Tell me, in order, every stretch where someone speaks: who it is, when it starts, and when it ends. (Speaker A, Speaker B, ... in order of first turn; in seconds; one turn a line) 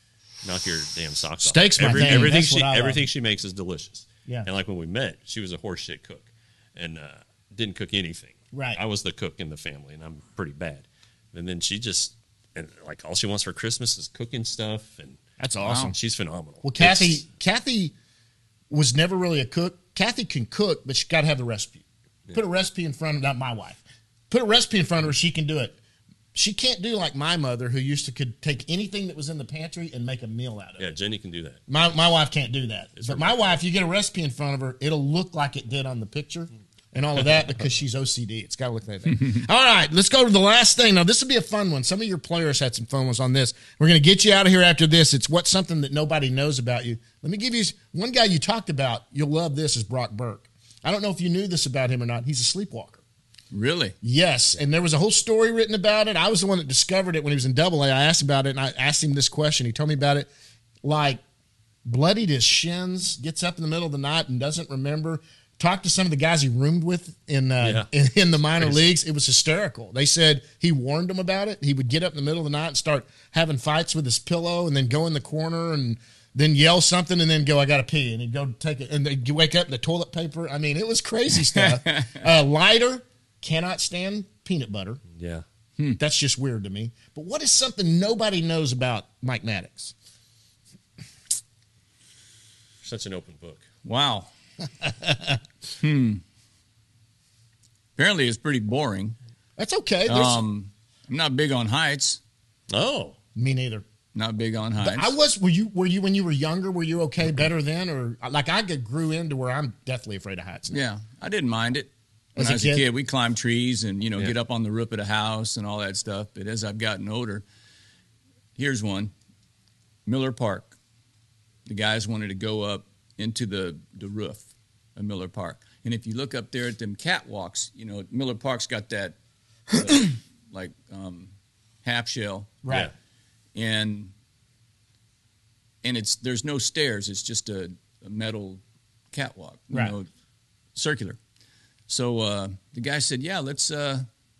Speaker A: 0.4-17.2
Speaker B: 1.4-3.0
Speaker B: 8.5-8.8
Speaker B: 15.4-15.9
Speaker B: 16.6-17.9
Speaker B: 18.7-21.8
Speaker B: 22.3-25.8
Speaker B: 26.3-30.9
Speaker A: 30.8-31.6
Speaker B: 31.7-53.0
Speaker A: 33.0-33.4
Speaker C: 53.5-54.0
Speaker B: 54.0-60.3
Speaker B: 60.8-61.2
Speaker B: 61.9-85.0
Speaker A: 67.6-67.9
Speaker A: 68.6-68.8
Speaker C: 81.5-82.2
Speaker A: 85.2-85.4
Speaker B: 86.0-89.9
Speaker A: 92.8-93.7
Speaker C: 93.8-94.3
Speaker B: 94.8-95.4
Speaker C: 95.8-96.2
Speaker C: 98.0-99.2
Speaker B: 99.6-100.4
Speaker C: 100.0-102.2
Speaker A: 102.7-103.2
Speaker B: 103.4-103.8
Speaker C: 104.1-105.1
Speaker B: 104.8-110.8
Speaker C: 110.7-117.4
Speaker B: 112.4-112.8
Speaker C: 118.5-119.1
Speaker C: 120.0-120.8
Speaker C: 121.7-129.2
Speaker C: 129.7-131.3
Speaker C: 131.8-132.6
Speaker B: 132.6-132.9
Speaker C: 133.6-134.1
Speaker C: 135.8-140.1
Speaker C: 140.7-141.2
Speaker C: 141.9-144.1